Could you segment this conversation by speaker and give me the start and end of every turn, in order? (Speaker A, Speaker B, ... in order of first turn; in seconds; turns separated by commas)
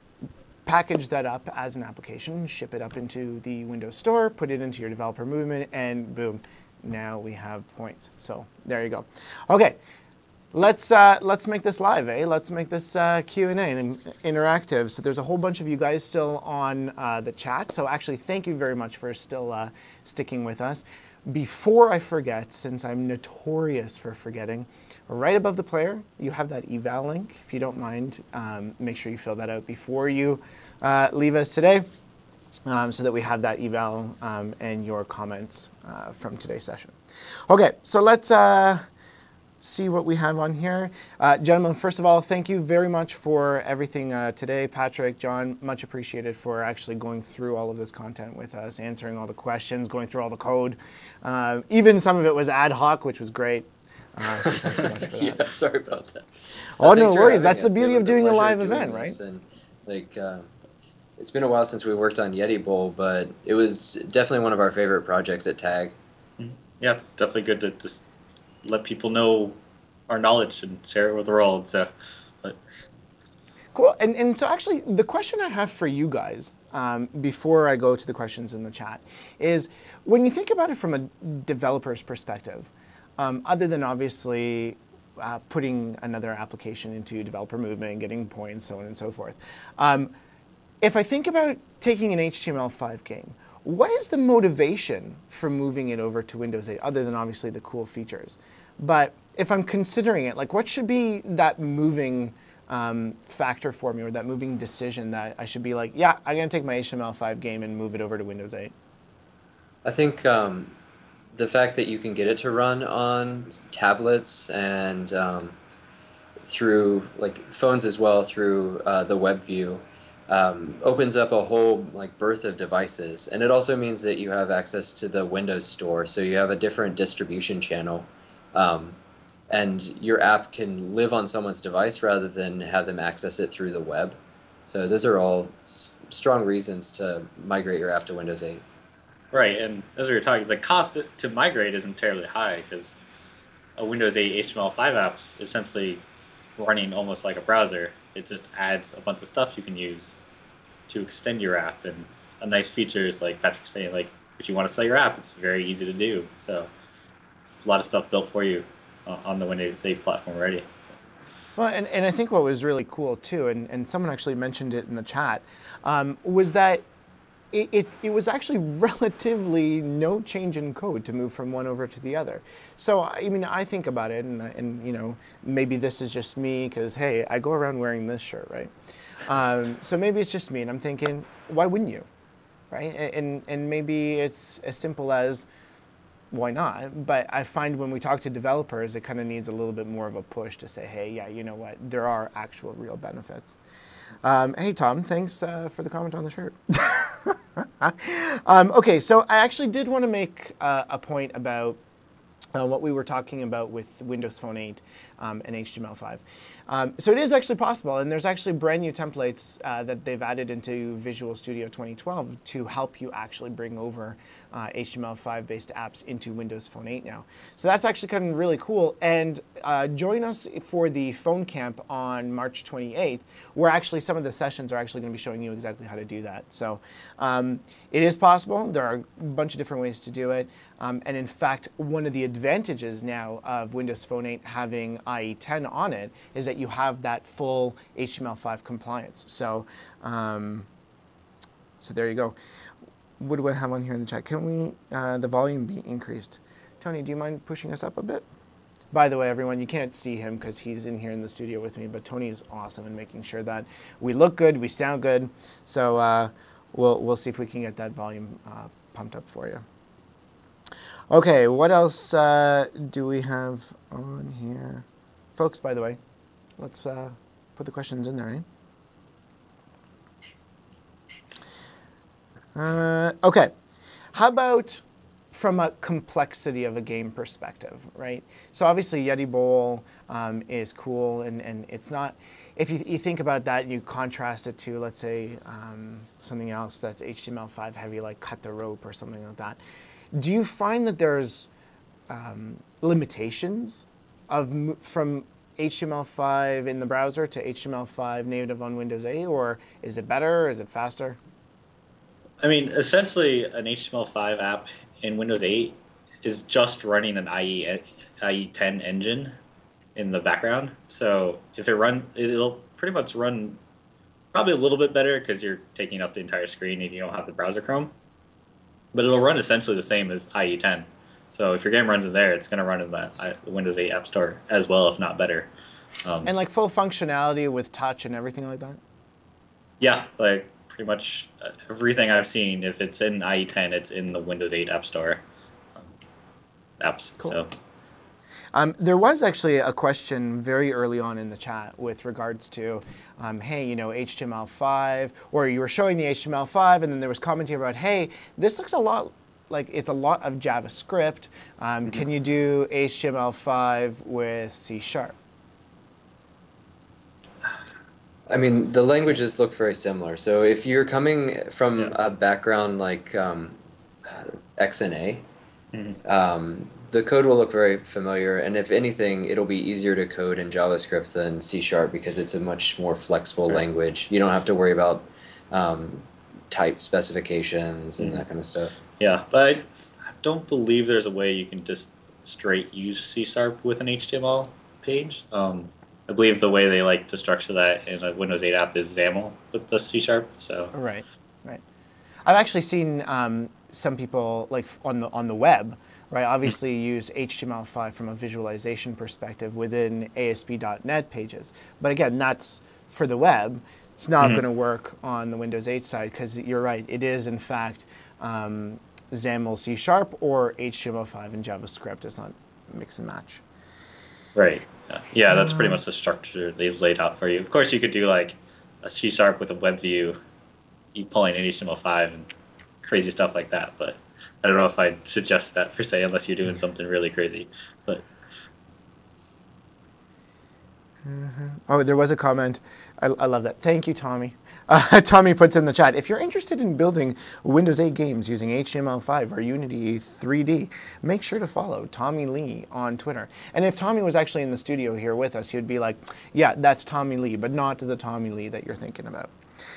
Speaker A: 0.7-9.8, Speaker A: 10.5-31.8, Speaker A: 32.7-36.9, Speaker A: 37.5-38.8, Speaker A: 39.6-55.5, Speaker B: 54.4-60.5, Speaker A: 56.8-59.2, Speaker B: 61.2-66.0, Speaker C: 66.4-68.0, Speaker C: 68.6-71.9, Speaker A: 73.7-90.1, Speaker A: 90.8-108.7, Speaker B: 109.8-110.7, Speaker B: 111.3-115.6, Speaker B: 116.4-129.0, Speaker B: 129.5-138.6, Speaker C: 139.3-143.0, Speaker C: 143.8-146.0, Speaker C: 146.6-150.2, Speaker C: 150.9-156.7, Speaker C: 157.5-160.9, Speaker A: 161.6-166.8, Speaker A: 167.5-178.7, Speaker A: 179.2-182.1, Speaker A: 182.7-185.4, Speaker A: 186.3-193.6, Speaker A: 194.2-201.8, Speaker A: 202.5-240.7, Speaker A: 241.8-242.3, Speaker A: 243.2-248.2, Speaker A: 248.9-259.6, Speaker A: 261.1-264.8, Speaker A: 265.4-266.0, Speaker A: 266.6-268.4, Speaker A: 272.6-273.5, Speaker A: 274.1-289.6, Speaker A: 290.1-291.5, Speaker A: 292.1-301.2, Speaker C: 302.4-309.4, Speaker C: 309.9-313.6, Speaker C: 314.3-317.9, Speaker C: 318.9-325.5, Speaker C: 326.0-326.3, Speaker A: 326.2-328.8, Speaker C: 329.8-335.2, Speaker C: 336.8-337.5, Speaker A: 338.5-355.1, Speaker B: 358.3-365.3, Speaker C: 365.7-366.0, Speaker B: 366.0-378.8, Speaker C: 378.0-378.2, Speaker C: 379.0-390.7, Speaker A: 390.7-391.6, Speaker A: 392.2-413.4, Speaker C: 414.3-420.1, Speaker A: 415.3-415.8, Speaker C: 420.9-422.3, Speaker C: 422.8-428.1, Speaker A: 431.0-449.3